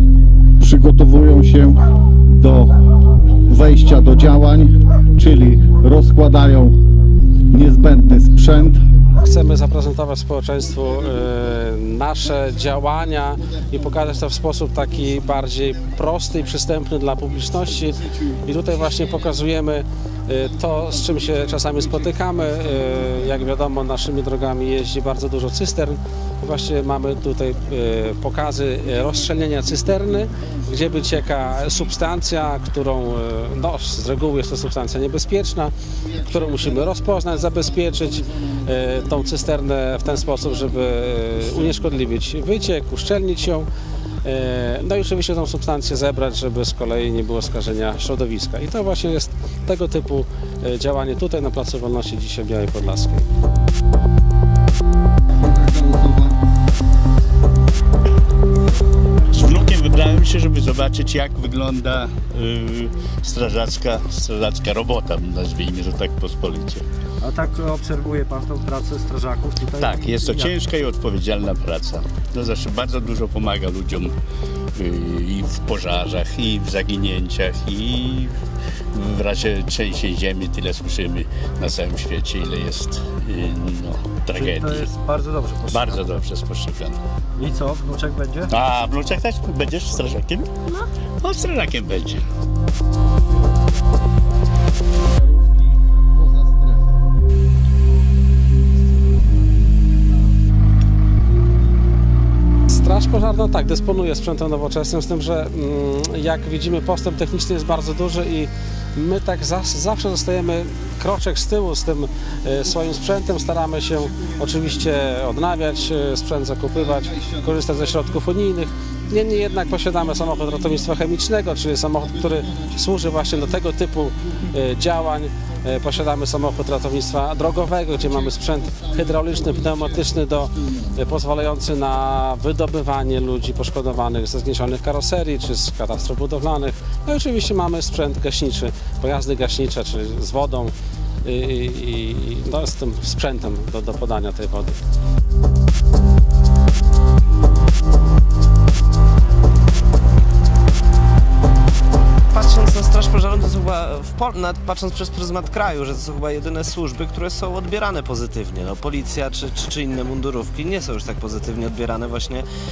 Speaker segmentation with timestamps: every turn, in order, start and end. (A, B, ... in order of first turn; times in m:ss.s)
0:00.6-0:02.7 A
0:03.5-0:06.7 A
0:07.5-0:08.8 A
0:09.2-0:43.7 B
0:44.2-0:53.3 B
0:55.4-0:56.4 A
0:59.3-1:06.8 C
1:07.2-1:10.6 D
1:09.8-1:14.1 C
1:14.8-1:18.4 C
1:18.9-1:24.9 C
1:24.3-1:26.2 D
1:25.7-1:27.0 C
1:27.4-1:28.5 D
1:28.5-1:30.5 C
1:31.2-1:32.2 C
1:35.4-1:36.8 A
1:42.7-2:24.8 B
2:08.7-2:10.8 A
2:32.3-2:42.5 E